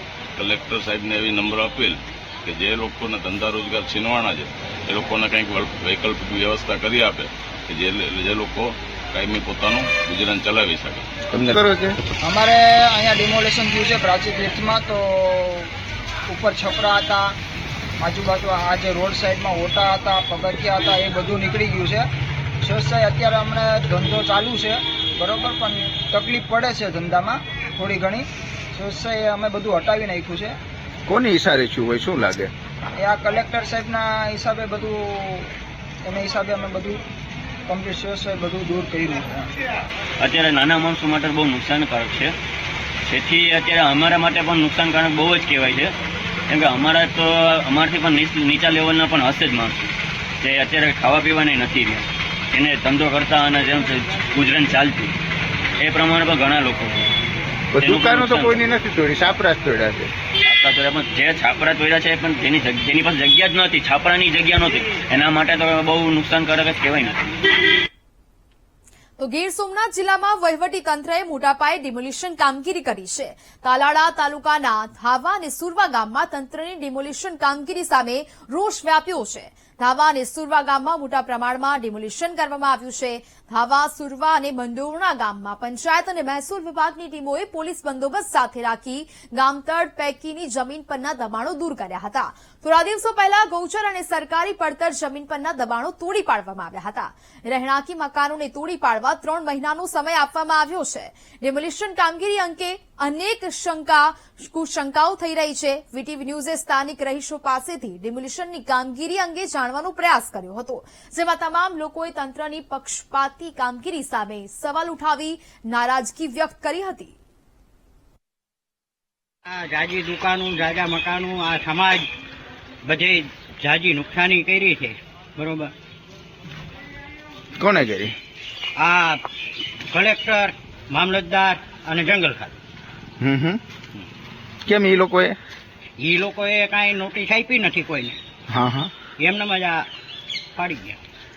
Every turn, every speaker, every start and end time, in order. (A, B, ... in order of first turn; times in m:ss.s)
0:00.4-0:11.5 A
0:11.3-0:12.0 B
0:12.2-0:15.7 C
0:16.3-0:17.3 C
0:18.0-0:22.1 C
0:22.6-0:30.6 C
0:31.1-0:32.5 B
0:33.0-0:35.5 C
0:36.0-0:37.0 C
0:37.7-0:39.5 C
0:40.2-0:42.3 D
0:43.1-0:45.9 D
0:46.5-0:49.8 D
0:50.4-0:55.1 D
0:55.8-0:57.1 D
0:57.7-1:00.1 B
0:57.8-0:58.6 D
1:00.4-1:07.3 D
1:09.2-1:57.1 E
1:59.5-2:02.0 F
2:02.8-2:05.7 F
2:07.6-2:08.1 B
2:08.8-2:09.2 F
2:09.9-2:12.6 F
2:13.2-2:13.6 B
2:14.6-2:15.4 B
2:16.0-2:18.2 F
2:18.5-2:18.9 B
2:19.2-2:19.8 F
2:20.6-2:21.0 F